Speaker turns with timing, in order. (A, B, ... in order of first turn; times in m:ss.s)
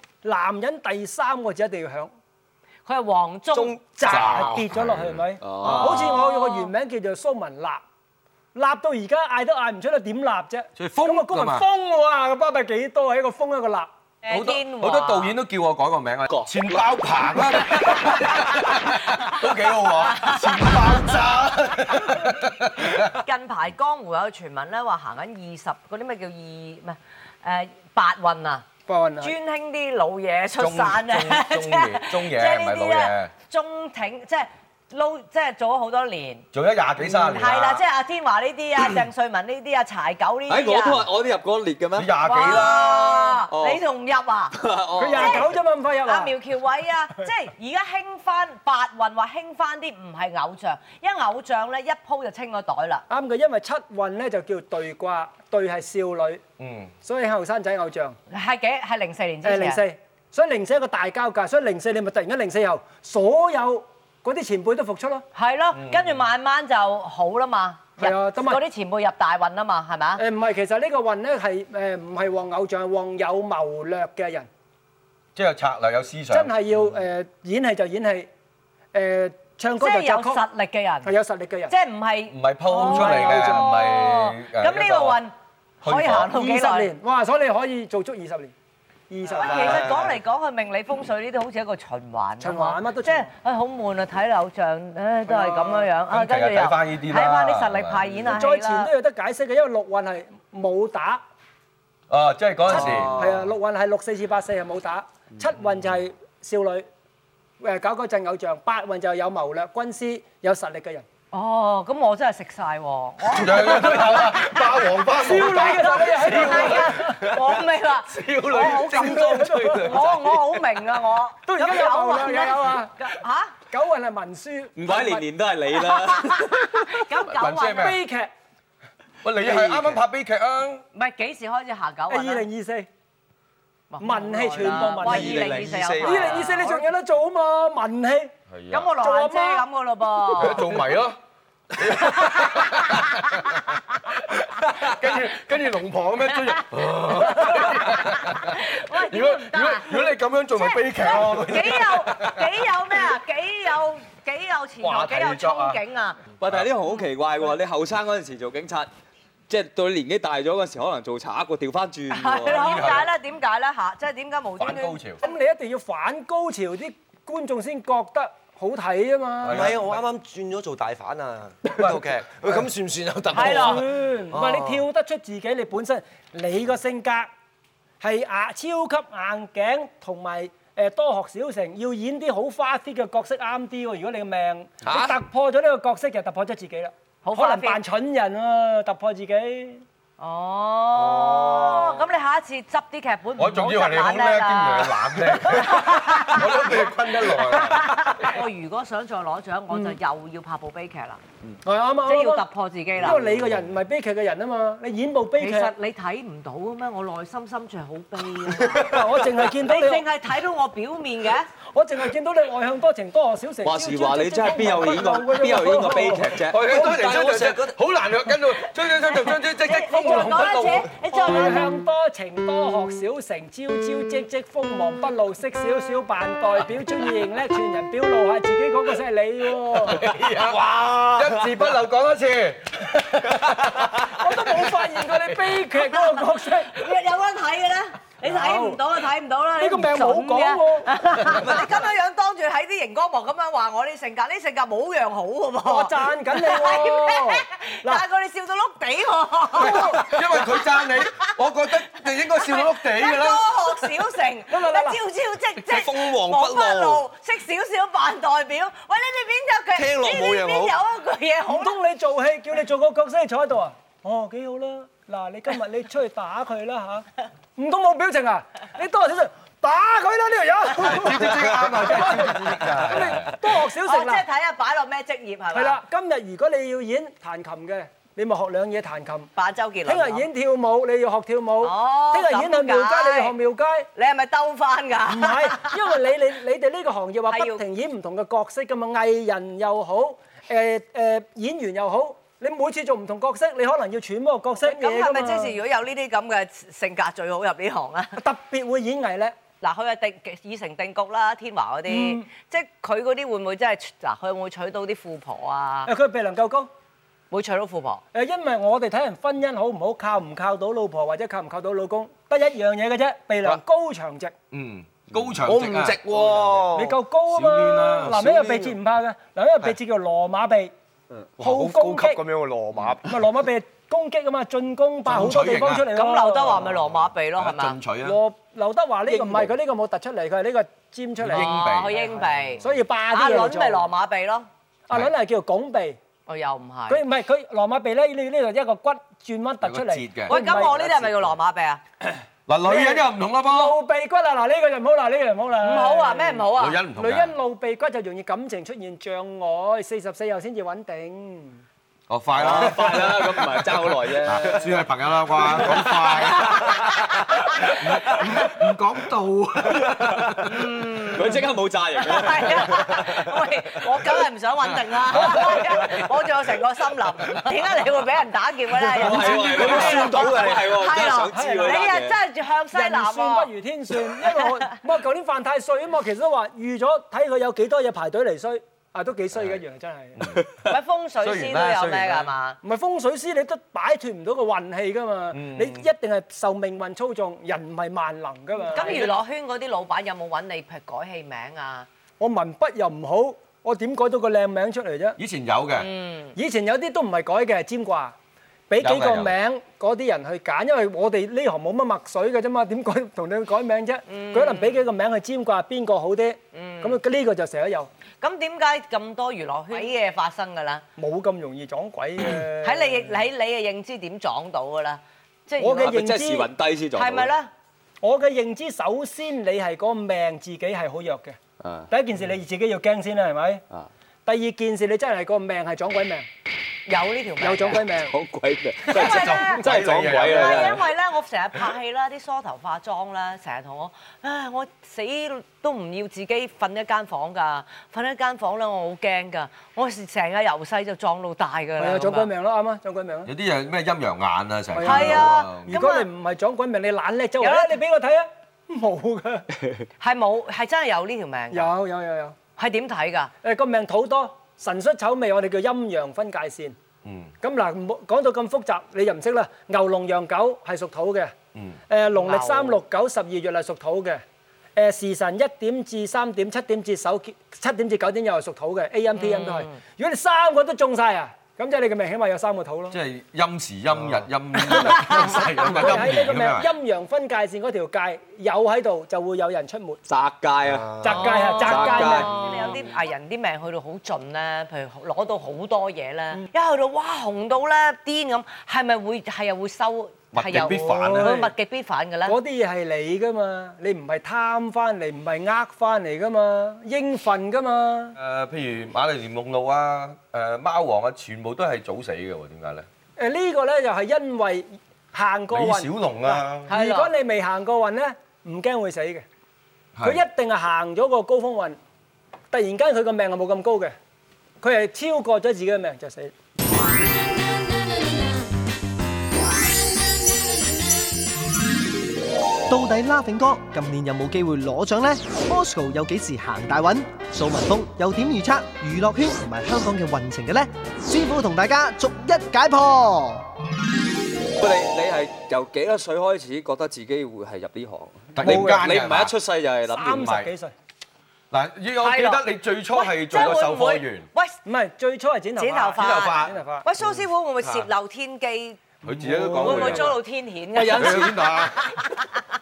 0:00.2-0:02.1 A
0:02.8-0:03.8 B
0:03.5-0:04.6 C
0:03.8-0:07.8 A
0:04.0-0:05.2 D
0:05.4-0:06.2 E
0:05.6-0:06.0 C
0:05.6-0:06.7 B
0:08.5-0:13.9 A
0:10.8-0:11.6 D
0:14.2-0:15.4 B
0:14.3-0:23.2 D
0:17.7-0:18.2 B
0:20.0-0:20.9 B
0:22.8-0:28.6 B
0:28.9-0:29.3 A
0:29.2-0:36.4 B
0:30.6-0:33.3 D
0:36.5-0:37.8 D
0:37.2-0:41.0 B
0:40.5-0:42.1 E
0:42.0-0:43.4 D
0:42.2-0:44.6 B
0:43.5-0:43.8 E
0:44.5-0:45.5 E
0:45.0-0:46.4 A
0:45.1-0:45.5 B
0:46.0-0:53.0 B
0:53.1-0:56.4 A
0:56.6-0:56.9 D
0:57.0-0:58.2 A
0:58.3-0:59.8 B
0:59.4-1:05.2 A
1:05.3-1:10.2 B
1:05.7-1:06.1 D
1:08.0-1:08.6 A
1:10.2-1:14.5 A
1:15.4-1:16.5 D
1:16.3-1:18.3 A
1:18.9-1:20.4 A
1:19.8-1:21.1 B
1:21.0-1:21.7 A
1:21.7-1:26.9 B
1:22.3-1:25.2 D
1:22.7-1:23.7 A
1:25.8-1:26.3 D
1:26.2-1:28.5 A
1:29.1-1:29.9 A
1:29.3-1:38.9 B
1:29.4-1:30.0 C
1:32.4-1:33.3 A
1:35.3-1:35.9 A
1:36.1-1:38.0 D
1:38.2-1:41.2 A
1:42.1-1:43.4 D
1:42.7-1:46.8 A
1:42.7-1:43.4 E
1:47.6-1:51.0 A
1:51.3-2:03.5 B
1:53.3-1:57.4 D
1:55.1-1:57.2 A
1:58.1-2:00.4 D
1:58.5-2:00.0 A
2:01.4-2:02.9 A
2:03.7-2:05.2 A
2:04.8-2:06.7 E
2:05.9-2:08.0 B
2:07.3-2:08.0 D
2:07.7-2:08.3 A
2:09.2-2:10.8 D
2:09.4-2:10.0 A
2:10.9-2:12.5 B
2:12.1-2:12.9 A
2:13.9-2:16.8 B
2:14.0-2:18.3 A
2:14.9-2:16.0 E
2:15.1-2:16.3 C
2:18.5-2:18.9 D
2:18.7-2:20.7 B
2:18.9-2:19.6 A
2:20.4-2:21.2 D
2:21.7-2:32.5 D
2:21.8-2:23.5 B
2:26.4-2:36.2 B
2:34.8-2:35.8 D
2:36.4-2:38.9 E
2:39.5-2:42.8 E
2:42.1-2:45.0 B
2:42.4-2:43.1 D
2:44.6-2:45.2 D
2:45.2-2:49.8 A
2:49.4-2:50.0 D
2:49.5-2:54.8 C
2:53.3-2:53.8 B
2:53.3-2:57.3 A
2:58.0-3:09.8 A
3:07.2-3:07.8 B
3:10.2-3:21.2 B
3:11.2-3:11.6 C
3:13.4-3:18.3 D
3:19.7-3:20.0 A
3:21.6-3:22.4 A
3:22.0-3:23.3 B
3:23.0-3:25.7 A
3:25.4-3:31.5 B
3:28.7-3:30.0 A
3:31.7-3:36.4 A
3:33.6-3:36.7 E
3:36.5-3:40.9 D
3:36.6-3:37.8 C
3:39.0-3:41.7 B
3:39.7-3:50.1 A
3:49.8-3:55.6 D
3:50.5-3:51.5 C
3:53.9-3:56.8 A
3:55.9-4:11.3 B
3:58.2-3:58.8 A
3:59.6-4:01.7 A
4:05.6-4:08.0 A
4:09.6-4:10.2 A
4:09.6-4:13.8 D
4:12.2-4:21.8 B
4:14.5-4:15.0 A
4:15.7-4:17.0 C
4:19.7-4:20.8 C
4:21.5-4:34.2 A
4:30.8-4:33.4 D
4:33.8-4:35.8 B
4:35.5-4:39.3 A
4:39.4-4:40.3 B
4:39.8-4:43.9 A
4:41.6-4:43.3 B
4:43.9-4:46.0 B
4:45.1-4:55.6 A
4:47.3-4:47.6 B
4:54.6-4:58.2 B
4:58.2-4:59.3 A
4:59.6-5:05.9 B
5:01.9-5:02.3 A
5:05.9-5:06.7 A
5:07.3-5:08.0 B
5:08.1-5:14.3 A
5:14.5-5:16.0 D
5:15.4-5:17.0 C
5:16.7-5:20.7 A
5:17.3-5:18.3 D
5:18.0-5:18.8 C
5:21.4-5:23.2 C
5:21.4-5:22.2 A
5:23.0-5:26.6 A
5:25.0-5:25.9 D
5:25.8-5:27.8 B
5:26.4-5:28.2 D
5:28.0-5:31.6 A
5:31.2-5:32.1 D
5:31.3-5:34.5 B
5:32.6-5:33.9 A
5:34.9-5:36.0 A
5:36.3-5:37.0 B
5:36.9-5:40.8 A
5:39.6-5:40.7 D
5:40.3-5:41.8 B
5:42.5-5:43.8 D
5:42.6-5:51.6 A
5:45.6-5:46.8 B
5:46.6-5:47.3 D
5:52.1-5:56.9 D
5:52.3-5:54.8 E
5:55.4-5:56.8 E
5:56.2-5:58.5 B
5:57.6-6:00.5 D
6:00.4-6:13.5 B
6:01.1-6:02.9 E
6:09.0-6:12.2 E
6:09.1-6:10.1 D
6:09.3-6:10.7 C
6:11.3-6:11.8 A
6:12.7-6:20.2 A
6:14.1-6:14.5 B
6:20.2-6:20.4 D
6:20.6-6:22.6 B
6:21.2-6:22.3 D
6:22.6-6:29.1 A
6:25.3-6:25.8 D
6:28.7-6:31.9 B
6:32.2-6:35.2 A
6:35.2-6:35.9 D
6:35.7-6:36.4 B
6:36.3-6:38.1 A
6:38.7-6:47.9 A
6:38.8-6:39.3 D
6:44.1-6:44.8 B
6:46.5-6:47.0 B
6:48.2-6:50.8 B
6:51.0-6:53.1 A
6:52.6-6:55.9 B
6:55.6-6:56.5 A
6:55.8-6:57.3 E
6:56.9-6:57.5 B
6:58.0-7:01.4 A
7:01.6-7:01.9 E
7:01.9-7:03.6 A
7:04.2-7:06.3 A
7:06.9-7:07.8 B
7:07.4-7:08.1 A
7:08.0-7:10.9 E
7:08.9-7:09.6 B
7:08.9-7:10.8 D
7:09.0-7:09.3 A
7:10.2-7:22.3 B
7:21.8-7:23.3 A
7:23.2-7:25.7 D
7:24.7-7:29.5 A
7:24.8-7:26.1 B
7:27.4-7:27.7 B
7:30.0-7:31.7 B
7:31.5-7:32.4 A
7:32.6-7:33.3 B
7:33.4-7:36.8 A
7:37.0-7:37.3 D
7:37.4-7:41.3 A
7:41.9-7:44.2 A
7:42.2-7:42.8 B
7:44.8-7:53.0 A
7:49.1-7:49.8 B
7:52.9-7:56.7 D
7:54.7-7:55.7 B
7:54.9-8:00.0 A
8:00.1-8:02.4 E
8:00.8-8:01.1 C
8:01.0-8:02.4 A
8:01.0-8:12.4 B
8:10.3-8:11.4 D
8:10.5-8:11.5 A
8:12.2-8:18.2 A
8:18.2-8:22.8 D
8:23.2-8:29.2 A
8:25.5-8:26.7 D
8:26.7-8:27.1 B
8:30.0-8:30.2 D
8:30.0-8:31.8 A
8:32.5-8:33.9 A
8:34.6-8:36.3 A
8:42.7-8:53.5 F
8:54.6-9:00.3 E
8:58.3-8:59.3 D
8:58.4-8:58.9 A
8:59.9-9:00.7 A
9:00.1-9:00.5 D
9:01.5-9:04.3 D
9:02.0-9:04.6 B
9:04.6-9:06.8 A
9:05.6-9:08.8 B
9:06.0-9:06.6 D
9:07.6-9:07.9 D
9:09.0-9:10.2 D
9:09.1-9:10.1 A
9:09.6-9:12.2 B
9:10.7-9:11.7 E
9:10.9-9:11.9 D